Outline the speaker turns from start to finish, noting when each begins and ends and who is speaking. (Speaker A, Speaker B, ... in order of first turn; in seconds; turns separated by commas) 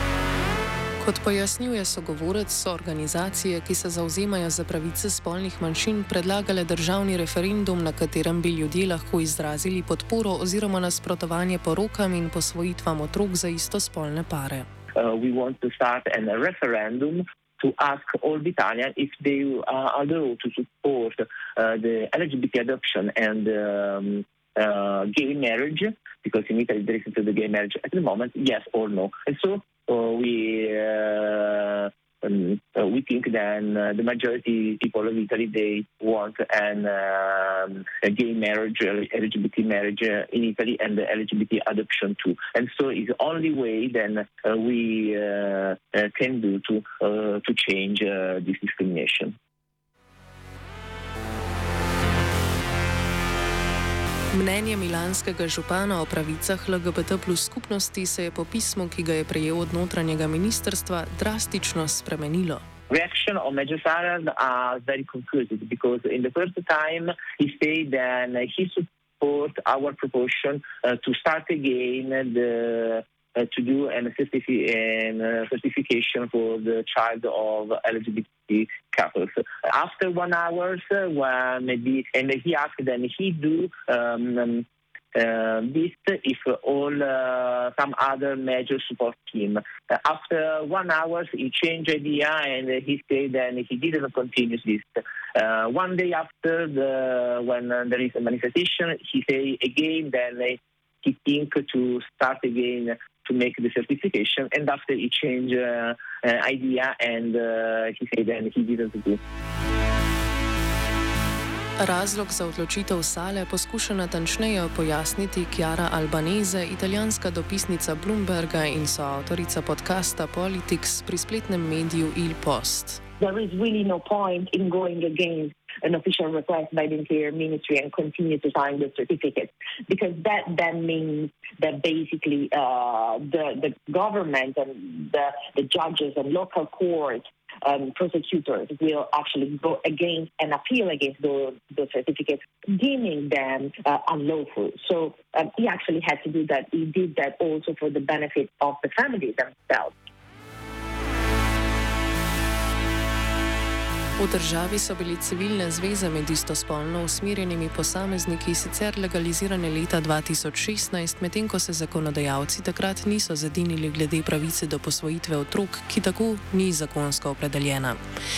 Speaker A: 1.0-14.7, Speaker B: 14.9-49.3, Speaker A: 54.3-62.6, Speaker B: 62.9-109.2, Speaker A: 111.8-123.0, Speaker C: 123.2-149.9, Speaker A: 154.2-168.0